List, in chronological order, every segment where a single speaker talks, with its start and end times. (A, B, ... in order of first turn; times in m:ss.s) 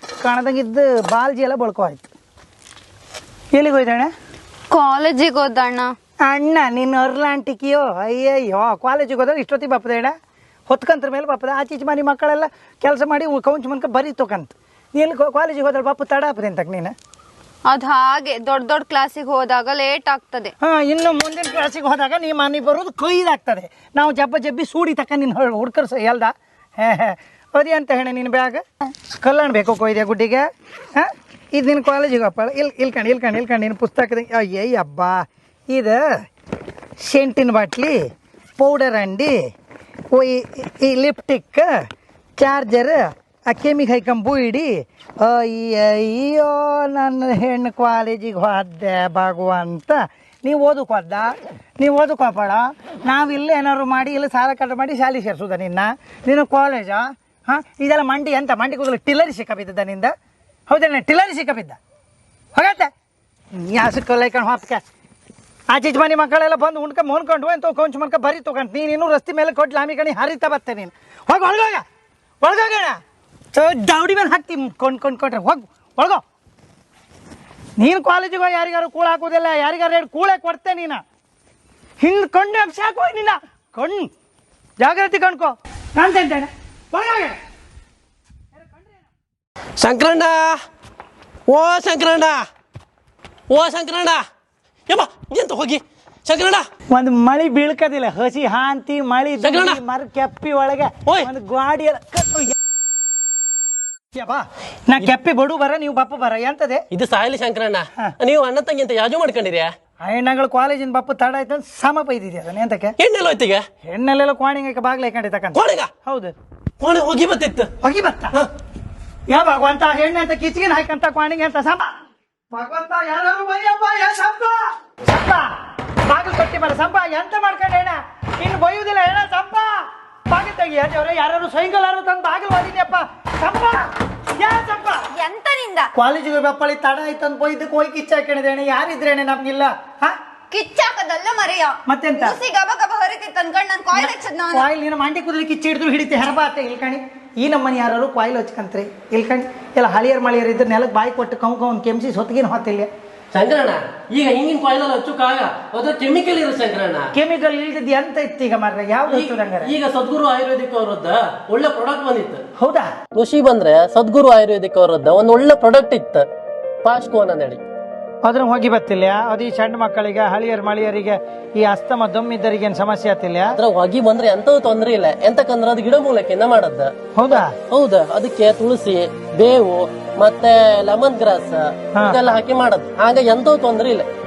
0:00.2-0:02.0 A
0:03.5-0:04.1 A
0:04.7-0:05.9 B
0:06.2-0:10.1 A
0:10.7-0:17.0 A
0:17.7-0:20.5 B
0:20.6-0:36.0 A
0:37.0-0:38.0 A
0:38.6-0:39.4 A
0:40.1-0:41.8 A
0:42.4-1:00.1 A
1:00.7-1:01.8 A
1:02.6-1:02.9 A
1:03.6-1:04.8 A
1:05.7-1:11.8 A
1:12.4-1:13.0 A
1:13.5-1:16.2 A
1:17.8-1:21.0 A
1:22.0-1:24.1 A
1:24.8-1:27.4 A
1:29.8-1:30.6 C
1:31.5-1:32.5 C
1:33.5-1:34.2 C
1:34.9-1:36.7 C
1:36.9-1:42.6 A
1:39.4-1:39.8 C
1:44.2-1:46.8 A
1:46.9-1:49.7 C
1:50.0-1:53.0 A
1:53.0-1:53.6 C
1:53.8-1:56.3 A
1:55.5-1:55.9 C
1:56.8-1:57.7 C
1:57.8-1:58.4 A
1:59.3-2:01.9 A
2:02.5-2:05.6 A
2:06.1-2:15.1 A
2:15.1-2:15.9 B
2:16.0-2:20.2 A
2:20.5-2:24.6 B
2:21.9-2:22.4 A
2:24.0-2:32.9 A
2:33.3-2:37.1 C
2:37.1-2:39.8 A
2:39.1-2:42.4 C
2:42.6-2:42.9 A
2:43.1-2:46.3 C
2:46.8-2:47.6 C
2:48.2-2:53.6 A
2:53.6-3:04.1 C
2:57.2-2:57.6 A